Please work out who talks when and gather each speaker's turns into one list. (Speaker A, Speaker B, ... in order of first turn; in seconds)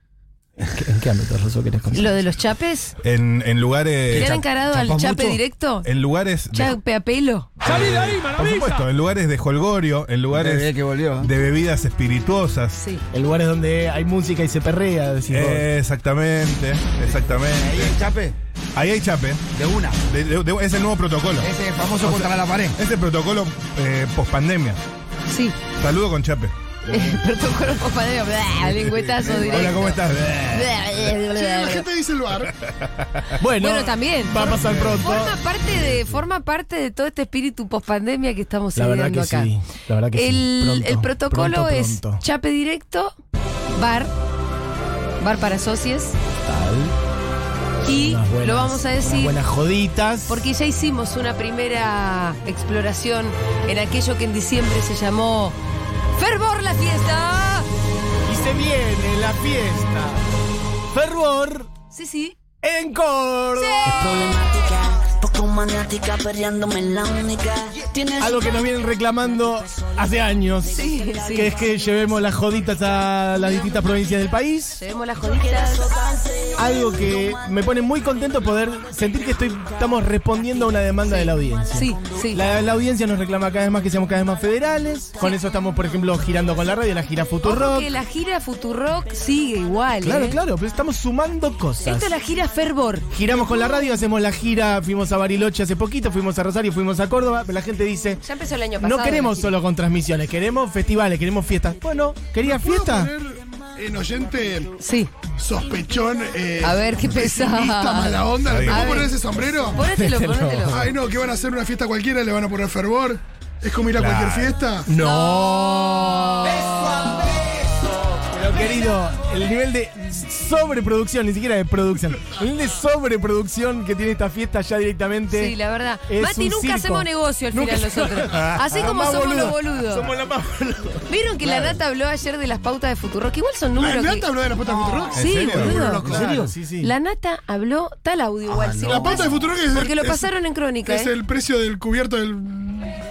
Speaker A: 0.7-2.2, 7.6-8.8, 13.1-15.7, 33.4-35.4, 38.8-42.2, 46.5-46.9, 47.9-50.4, 58.2-60.2, 60.9-61.7, 62.6-64.1, 68.2-74.8, 76.6-87.9, 90.0-92.1, 93.1-98.2, 98.8-103.1, 109.8-110.9, 114.9-117.3, 118.3-125.5, 126.1-131.7, 136.0-136.9
Speaker B: 1.9-2.9, 4.1-5.9, 6.5-7.6, 12.8-13.0, 25.3-25.6, 26.9-29.9, 30.5-31.9, 33.6-39.5, 40.1-43.1, 43.7-44.1, 45.2-46.1, 47.8-49.4, 50.3-55.5, 56.1-57.7, 61.9-62.3, 63.5-64.1, 70.7-71.5, 73.4-73.8, 74.8-76.0, 81.0-82.4, 87.4-90.4, 91.8-93.9, 98.2-99.5, 104.8-105.1, 106.6-109.1, 109.7-110.8, 114.9-117.2, 125.3-130.1, 131.1-134.3, 135.1-136.1, 136.8-141.1
Speaker C: 3.0-4.4, 5.8-6.8, 7.6-10.7, 11.2-12.8, 15.3-17.9, 18.7-19.4, 20.1-21.5, 22.0-24.8, 25.8-26.5, 28.6-30.8, 32.7-33.3, 34.4-35.0, 108.4-108.9, 114.0-114.6, 128.3-128.9, 135.1-135.8
Speaker D: 4.1-5.4, 10.3-11.3, 17.5-18.3, 19.5-20.0, 21.4-22.8, 134.7-135.2, 135.9-136.5, 138.4-139.5
Speaker E: 31.1-32.5, 102.4-104.7, 105.4-109.8, 110.7-114.9, 133.8-136.3, 138.9-140.3, 140.8-142.9
Speaker F: 63.8-68.6